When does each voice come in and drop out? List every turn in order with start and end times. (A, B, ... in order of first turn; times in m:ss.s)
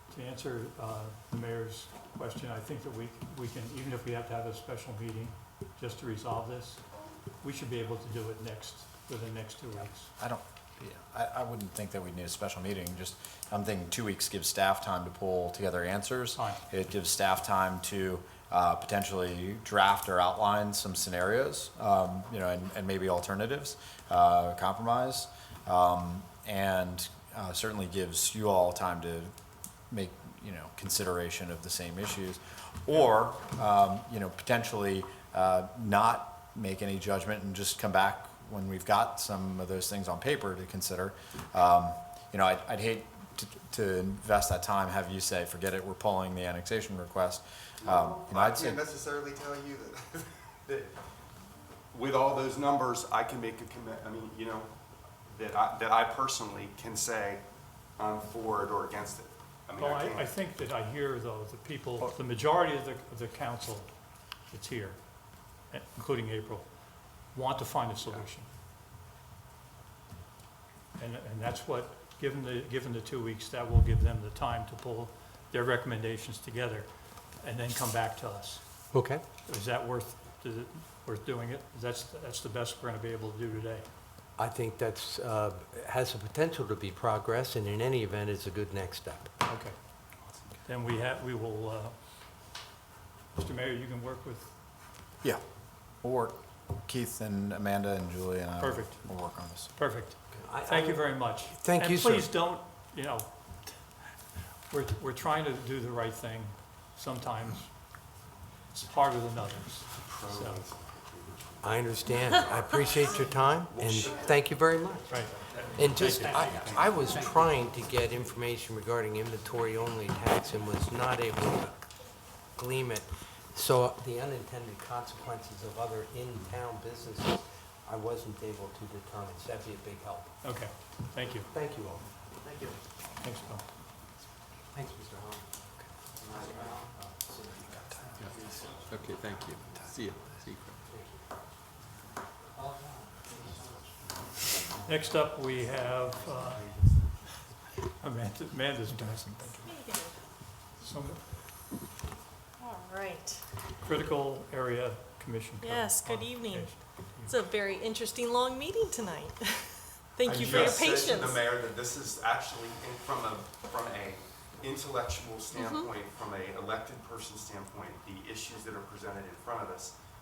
0:00.1-0:06.8 A
0:07.4-0:10.1 A
0:10.2-0:29.3 B
0:16.4-0:16.6 A
0:29.9-0:48.8 B
0:47.8-0:50.9 C
0:51.9-0:54.7 C
0:55.3-0:57.4 C
0:58.0-1:00.3 C
0:59.8-1:03.9 A
1:04.5-1:05.0 A
1:05.7-1:06.7 A
1:07.3-1:08.5 A
1:11.0-1:16.9 A
1:17.4-1:18.6 A
1:18.9-1:19.2 D
1:19.4-1:23.9 A
1:24.4-1:29.3 D
1:29.5-1:29.8 A
1:30.6-1:32.0 A
1:33.4-1:34.5 A
1:36.0-1:39.7 B
1:38.6-1:43.8 A
1:40.3-1:42.3 D
1:44.7-1:47.8 A
1:48.7-1:50.6 A
1:50.0-1:54.3 C
1:51.6-1:55.2 D
1:55.1-1:56.5 A
1:55.8-1:58.2 E
1:55.8-2:01.8 D
1:56.4-1:56.9 C
2:02.5-2:10.3 D
2:10.4-2:11.5 A
2:11.5-2:12.1 D
2:13.2-2:13.6 A
2:14.7-2:15.4 D
2:16.2-2:20.8 E
2:16.4-2:16.9 D
2:20.9-2:21.2 D
2:23.3-2:23.8 E
2:24.8-2:26.7 A
2:28.0-2:29.7 A
2:29.6-2:30.2 F
2:30.8-2:31.2 A
2:32.6-2:33.4 F
2:33.8-2:37.4 A
2:35.6-2:41.4 F
2:40.2-2:49.9 C
2:40.3-2:40.8 A
2:45.5-2:45.9 F